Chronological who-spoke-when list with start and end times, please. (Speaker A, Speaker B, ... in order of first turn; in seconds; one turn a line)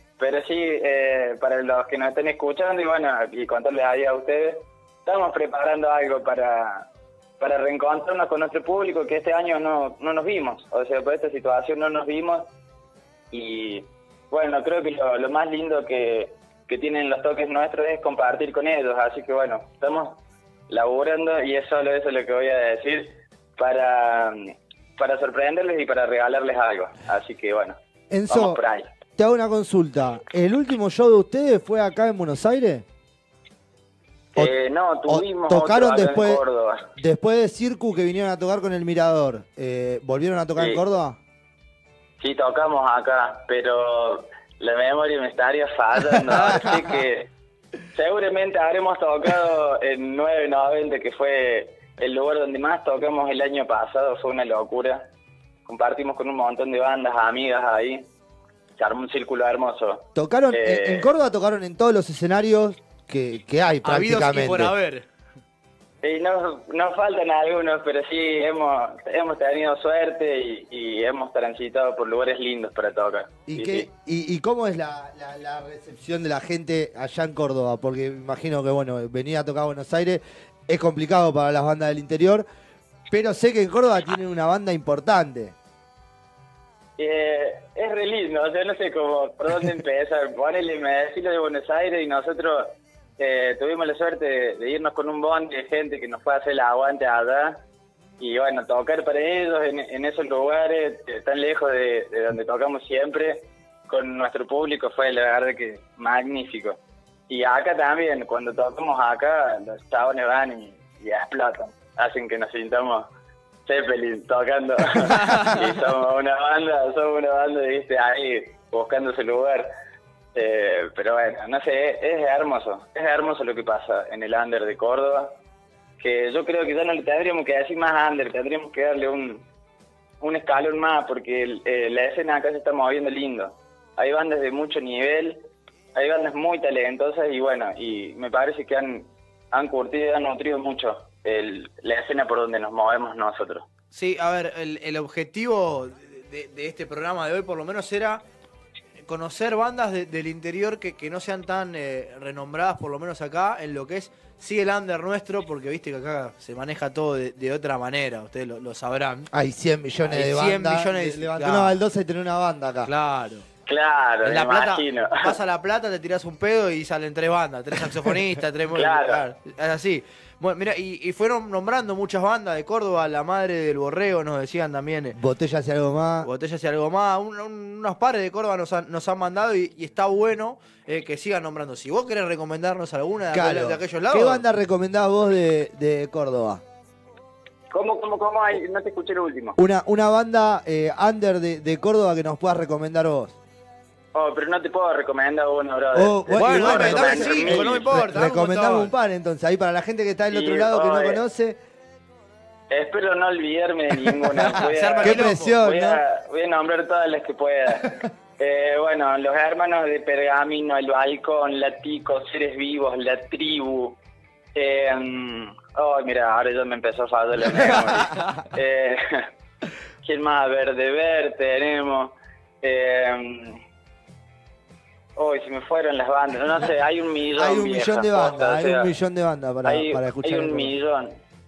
Speaker A: 0.2-6.8
Speaker A: 7.4-12.5
Speaker A: 13.3-27.8
Speaker B: 28.1-28.6
Speaker A: 28.3-28.9
Speaker B: 29.2-32.8
Speaker A: 34.3-36.9
Speaker B: 35.1-36.4
Speaker B: 37.0-41.2
Speaker A: 42.2-47.3
Speaker B: 46.3-46.6
Speaker A: 47.9-55.0
Speaker A: 55.6-58.1
Speaker A: 58.8-61.1
Speaker B: 60.1-64.7
Speaker C: 63.8-65.0
Speaker A: 66.0-73.9
Speaker B: 73.5-82.4
Speaker B: 83.1-85.5
Speaker A: 87.0-97.6
Speaker A: 98.2-106.8
Speaker A: 107.3-113.1
Speaker A: 113.7-119.7
Speaker C: 115.1-115.6
Speaker A: 120.3-125.3
Speaker A: 126.0-129.4
Speaker A: 130.2-135.4
Speaker A: 135.9-143.6
Speaker C: 143.9-148.2
Speaker C: 149.1-159.3
Speaker B: 159.3-162.9
Speaker C: 160.0-161.8
Speaker C: 162.8-163.5
Speaker A: 163.7-165.3
Speaker C: 164.2-175.2
Speaker A: 168.7-169.2
Speaker B: 175.1-176.3
Speaker C: 176.2-184.4
Speaker B: 183.3-186.6
Speaker A: 187.7-189.6
Speaker B: 189.6-193.4
Speaker A: 194.1-198.0
Speaker B: 195.9-201.6
Speaker C: 196.3-198.9
Speaker A: 200.3-201.2
Speaker A: 202.7-214.0
Speaker C: 204.4-205.5
Speaker B: 205.0-206.0
Speaker A: 214.5-219.3
Speaker A: 220.0-223.6
Speaker A: 225.2-228.9
Speaker B: 227.3-230.7
Speaker A: 229.6-231.2